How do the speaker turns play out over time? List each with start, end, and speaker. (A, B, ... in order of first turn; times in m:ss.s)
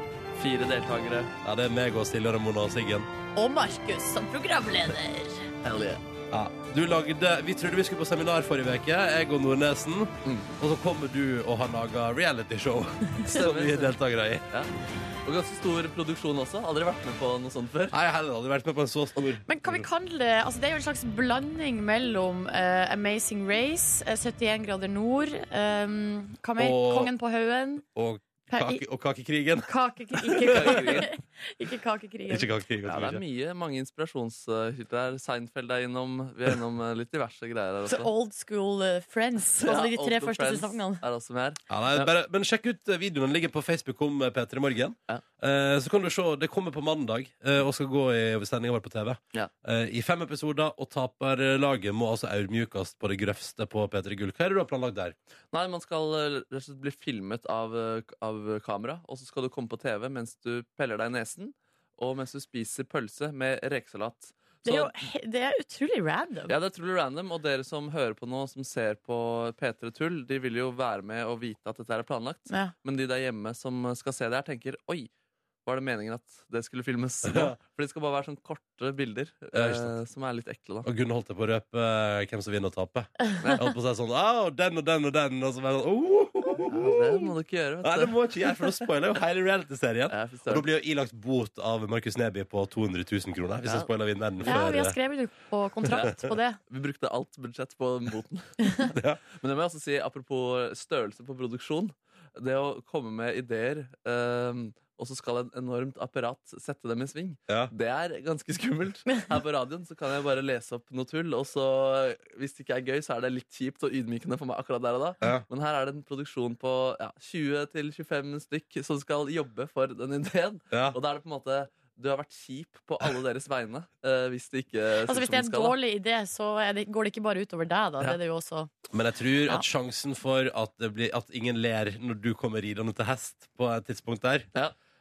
0:00.4-0:01.3 A
0:01.4-0:03.1 B
0:03.4-0:05.5 C
0:05.6-0:06.0 A
0:06.3-0:14.4 B
0:13.3-0:13.9 A
0:15.2-0:18.0 A
0:17.9-0:19.4 B
0:19.5-0:27.8 C
0:26.6-0:27.1 B
0:28.0-0:31.0 B
0:28.5-0:28.8 C
0:29.7-0:32.5 C
0:30.5-0:31.1 A
0:32.3-0:33.2 B
0:32.9-0:38.1 A
0:37.9-0:41.0 C
0:39.6-0:42.1 A
0:41.7-0:55.2 B
0:55.5-1:04.9 A
1:04.6-1:06.5 C
1:06.5-1:15.1 A
1:15.7-1:20.9 A
1:17.3-1:17.6 B
1:19.5-1:19.9 B
1:20.8-1:27.3 B
1:23.4-1:23.7 A
1:26.7-1:28.2 A
1:27.8-1:35.0 B
1:30.1-1:30.6 A
1:34.4-1:36.6 C
1:36.7-2:05.8 A
1:38.9-1:39.2 B
2:00.7-2:01.0 B
2:05.1-2:08.7 C
2:08.9-2:14.5 B